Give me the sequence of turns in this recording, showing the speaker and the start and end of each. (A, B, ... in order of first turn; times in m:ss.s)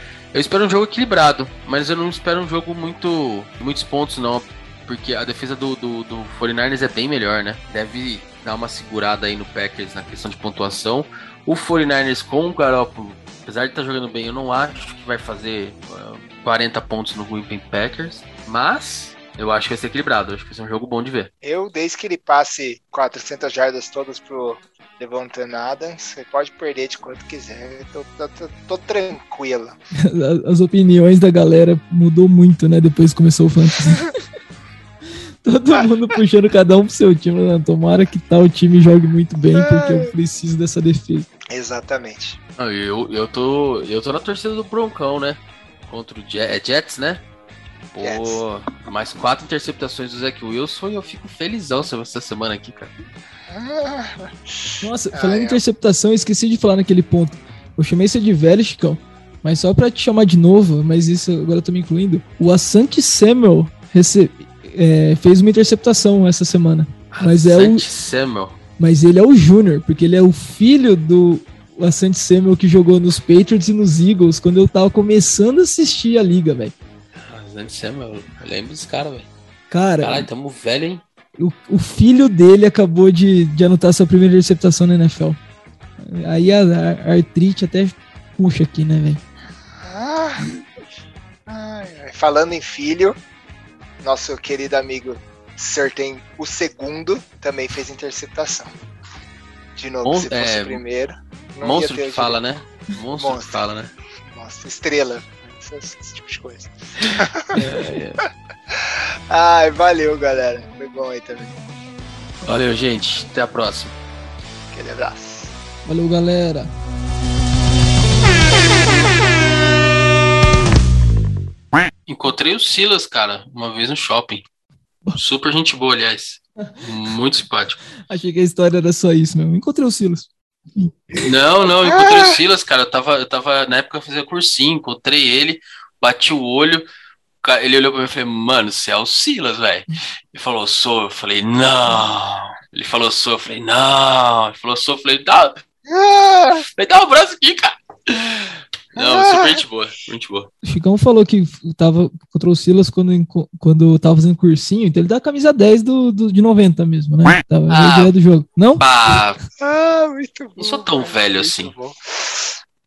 0:00.3-0:21.3 A
0:21.4-0:29.8 B
0:30.0-0:34.1 C
0:35.4-0:41.3 C
0:39.6-0:40.1 B
0:41.5-0:42.4 B
0:42.6-0:47.2 A
0:47.9-0:52.9 A
0:48.0-0:48.4 B
0:53.5-0:55.6 B
0:54.8-1:07.9 C
1:07.1-1:08.6 A
1:08.8-1:16.7 C
1:17.2-1:19.3 A
1:19.7-1:20.3 C
1:20.0-1:21.0 A
1:21.4-1:25.4 C
1:26.0-1:29.2 C
1:29.8-1:30.5 B
1:31.5-1:33.2 B
1:34.0-1:38.8 B
1:39.8-1:42.4 B
1:40.0-1:40.8 A
1:41.6-1:43.9 A
1:43.1-1:43.7 B
1:44.2-1:47.6 B
1:47.1-1:48.2 A
1:47.6-1:47.9 C
1:48.7-1:51.6 B
1:52.4-1:53.9 A
1:54.7-1:55.6 B
1:55.9-1:56.7 C
2:02.1-2:04.4 A
2:05.2-2:07.8 A
2:08.1-2:11.3 C
2:11.2-2:16.8 A
2:11.9-2:12.3 B
2:17.4-2:25.6 A
2:25.9-2:26.6 B
2:26.8-2:30.5 A
2:29.0-2:29.6 B
2:30.6-2:38.8 C
2:37.7-2:38.1 A
2:38.8-2:39.4 A
2:39.6-2:42.6 B
2:40.6-2:41.8 A